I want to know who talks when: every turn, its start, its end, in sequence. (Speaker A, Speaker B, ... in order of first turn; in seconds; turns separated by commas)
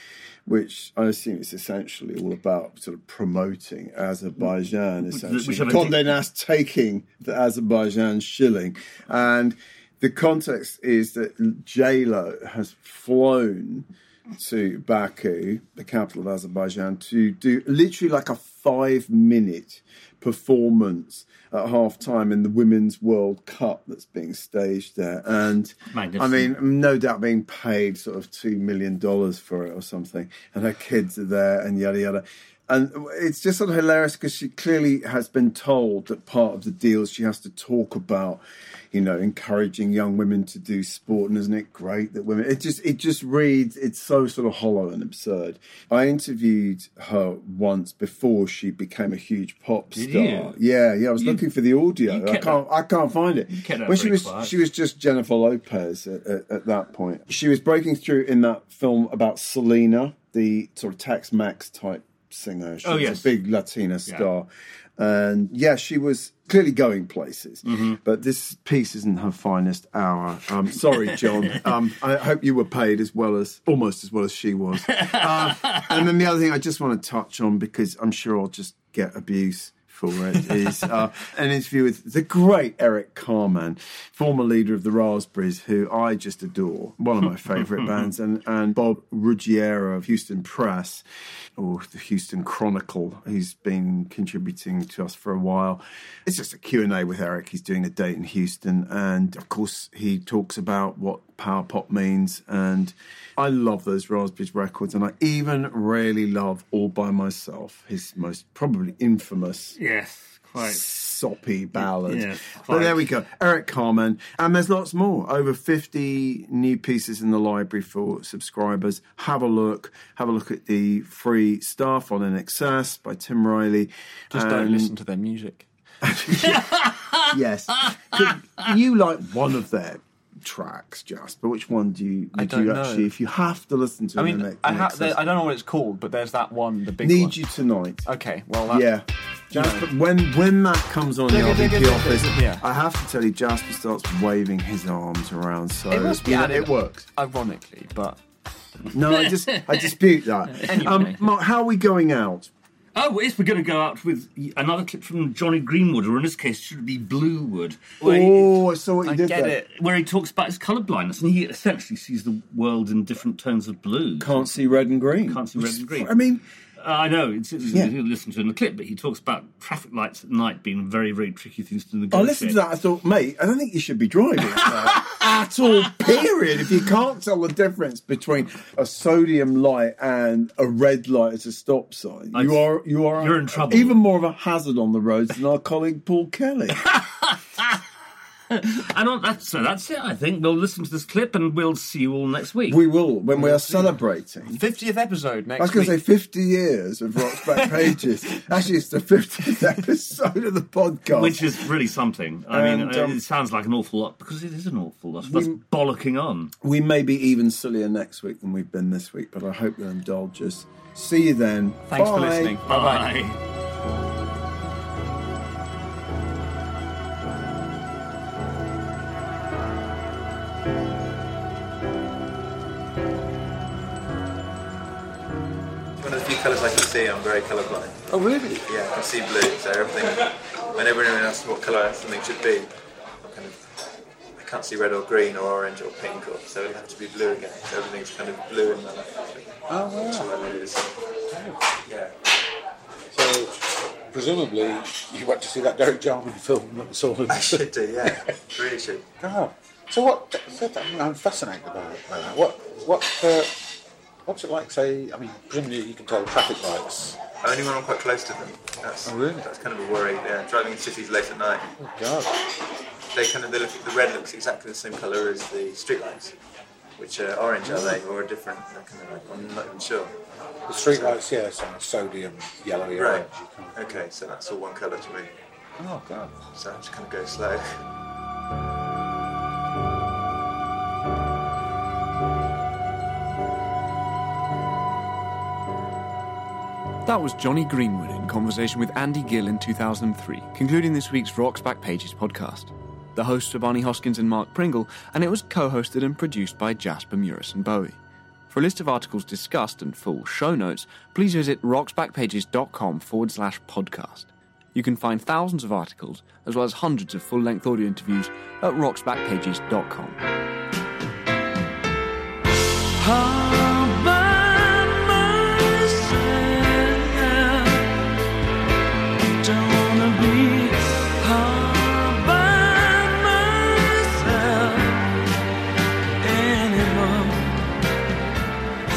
Speaker A: 0.5-91.0, Speaker B: 5.1-6.1, Speaker B: 25.9-26.5, Speaker B: 49.9-50.5, Speaker B: 52.1-52.6, Speaker B: 53.5-54.5, Speaker B: 62.8-63.3, Speaker B: 67.7-68.0, Speaker B: 74.9-75.9, Speaker B: 87.6-88.1, Speaker A: 91.6-109.8, Speaker B: 109.8-110.8, Speaker A: 110.6-124.9, Speaker B: 111.8-113.0, Speaker C: 124.3-125.7, Speaker A: 126.0-126.6, Speaker B: 126.4-128.7, Speaker A: 127.3-135.2, Speaker C: 132.3-133.1, Speaker C: 134.2-137.4, Speaker A: 137.0-138.1, Speaker C: 138.0-138.9, Speaker A: 138.7-147.0, Speaker C: 139.5-139.9, Speaker C: 141.3-142.6, Speaker C: 145.9-148.2, Speaker A: 148.9-152.5, Speaker B: 148.9-149.9, Speaker B: 150.6-151.0, Speaker C: 150.6-151.3, Speaker B: 152.9-158.5, Speaker A: 158.0-159.6, Speaker C: 159.0-159.7, Speaker B: 159.7-164.6, Speaker A: 164.2-166.4, Speaker B: 165.2-166.2, Speaker B: 166.8-172.6, Speaker A: 167.7-167.9, Speaker A: 172.1-186.8, Speaker B: 174.5-175.2, Speaker B: 182.3-182.6, Speaker B: 183.2-184.0, Speaker B: 186.8-187.8, Speaker B: 188.5-192.8, Speaker A: 192.7-194.6, Speaker C: 193.3-196.0, Speaker A: 195.6-201.7, Speaker C: 197.2-198.0, Speaker B: 201.1-206.5, Speaker A: 202.5-203.2, Speaker A: 205.2-205.6, Speaker A: 206.6-212.6, Speaker C: 211.9-213.1, Speaker B: 212.7-213.4, Speaker D: 226.0-233.6, Speaker E: 228.1-228.7, Speaker D: 234.4-240.9, Speaker E: 239.7-240.3, Speaker E: 241.3-241.7, Speaker D: 241.8-242.1, Speaker E: 243.1-248.4, Speaker D: 247.3-249.1, Speaker E: 249.2-253.6, Speaker E: 254.2-257.2, Speaker D: 257.4-261.6, Speaker E: 259.0-259.5, Speaker E: 261.8-262.3, Speaker D: 263.1-266.4, Speaker D: 267.0-270.1, Speaker E: 267.6-268.0, Speaker E: 270.7-274.1, Speaker D: 270.8-271.2, Speaker D: 272.9-275.3, Speaker E: 275.8-276.4, Speaker D: 276.5-277.8, Speaker C: 287.0-298.0, Speaker C: 298.5-310.2, Speaker B: 313.0-318.0, Speaker B: 319.2-325.3, Speaker B: 326.2-327.8